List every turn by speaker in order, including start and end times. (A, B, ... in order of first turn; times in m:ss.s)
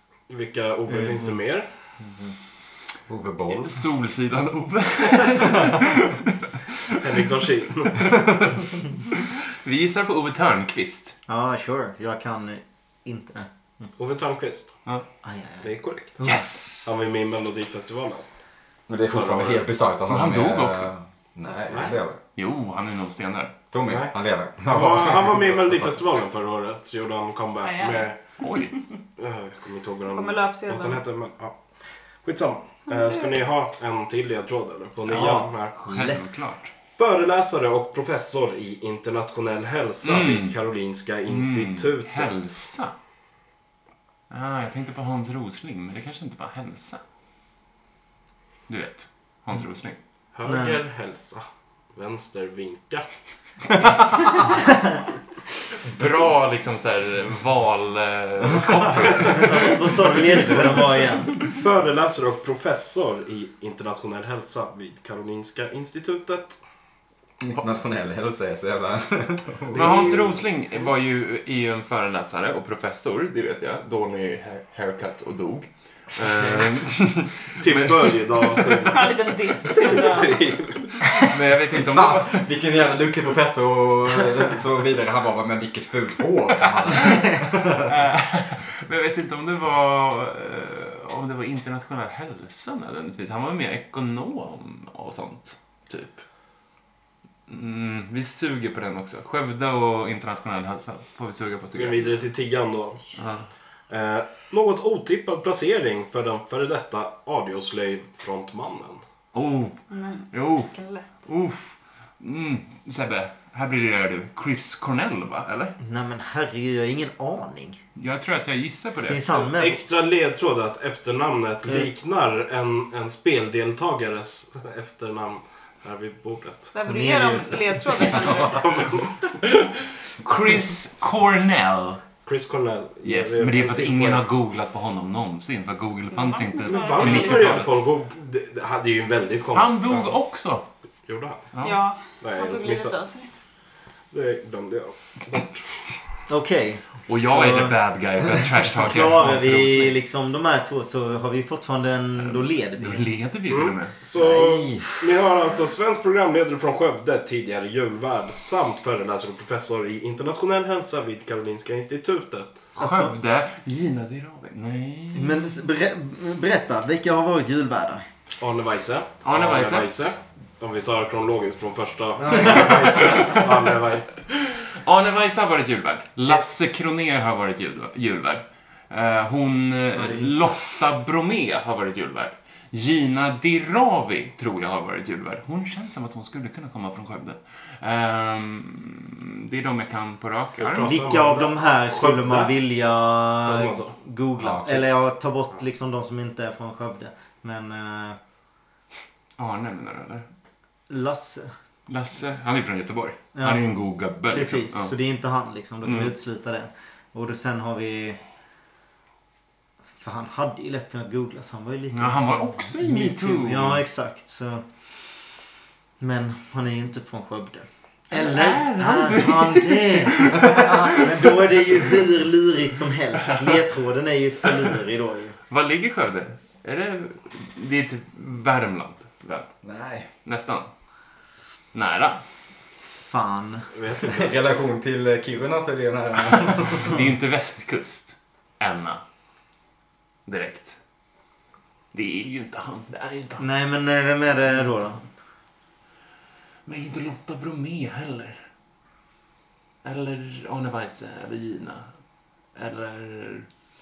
0:00.3-0:01.7 A
0:00.9-0:01.3 B
0:02.0-0:02.3 B
0:03.1-0:03.7 C
0:03.5-0:06.7 D
0:07.0-0:08.1 A
0:08.0-0:08.4 D
0:09.1-0:11.2 D
0:11.3-0:13.9 B
0:14.0-0:14.7 A
0:15.2-0:16.4 B
0:15.6-0:16.2 A
0:16.2-0:16.9 D
0:16.8-0:18.2 A
0:18.9-0:22.2 C
0:19.1-0:19.7 A
0:20.1-0:20.9 D
0:22.4-0:23.6 D
0:23.7-0:26.0 C
0:23.9-0:24.1 A
0:24.7-0:28.2 A
0:27.6-0:29.0 E
0:28.4-0:28.8 D
0:29.2-0:31.6 A
0:30.1-0:31.0 E
0:32.2-0:35.8 A
0:32.9-0:33.3 E
0:35.1-0:36.4 B
0:35.8-0:36.7 D
0:36.9-0:42.6 A
0:40.0-0:40.6 D
0:41.3-0:42.9 D
0:44.3-0:47.0 D
0:48.7-0:50.0 D
0:50.3-0:53.1 A
0:50.5-0:50.8 B
0:55.8-1:00.8 D
0:59.2-1:01.5 B
1:00.3-1:06.6 A
1:07.4-1:10.3 C
1:09.7-1:10.4 A
1:09.7-1:18.8 D
1:17.6-1:21.0 A
1:18.8-1:20.4 E
1:21.1-1:22.5 D
1:21.7-1:27.9 C
1:27.8-1:36.2 D
1:37.5-1:42.2 D
1:41.8-1:43.0 A
1:43.1-1:43.5 D
1:43.9-1:49.0 A
1:49.3-1:55.8 D
1:49.9-1:51.1 E
1:55.8-1:57.8 B
1:58.0-1:59.2 D
1:59.0-1:59.8 B
1:59.3-2:06.7 A
2:06.7-2:08.7 E
2:06.8-2:07.8 B
2:08.4-2:09.3 A
2:09.4-2:12.0 D
2:12.3-2:14.2 A
2:13.0-2:17.8 D
2:16.1-2:17.6 E
2:16.7-2:19.8 A
2:19.5-2:20.6 D
2:21.1-2:21.4 A
2:21.5-2:21.8 D
2:21.6-2:23.3 E
2:22.2-2:22.9 A
2:24.1-2:25.9 A
2:26.3-2:27.8 B
2:27.1-2:30.0 D
2:28.8-2:33.1 B
2:32.2-2:34.0 D
2:33.5-2:42.6 A
2:34.2-2:34.9 B
2:34.2-2:34.8 C
2:42.8-2:43.1 B
2:42.8-2:45.6 D
2:45.1-2:48.0 B
2:48.4-2:54.1 A
2:49.2-2:49.9 D
2:52.2-2:53.0 B
2:53.0-2:53.5 D
2:54.3-3:10.9 D
3:00.0-3:00.3 B
3:10.6-3:12.6 A
3:10.8-3:18.2 B
3:13.4-3:14.0 A
3:14.4-3:14.9 C
3:19.4-3:20.2 D
3:20.9-3:21.5 B
3:21.9-3:24.9 D
3:23.4-3:23.6 B
3:24.2-3:28.2 B
3:25.8-3:26.1 D
3:30.0-3:34.6 B
3:31.9-3:33.8 D
3:36.0-3:45.4 B
3:38.1-3:41.0 D
3:45.5-3:49.5 D
3:49.6-3:50.1 C
3:50.2-3:50.7 D
3:51.7-3:52.2 D
3:53.0-3:53.7 B
3:53.7-3:54.4 A
3:54.0-3:56.9 C
3:56.5-3:59.0 D
4:00.3-4:00.8 D
4:01.9-4:03.4 D
4:03.4-4:05.0 B
4:06.6-4:08.4 D
4:09.8-4:11.9 D
4:12.6-4:13.5 D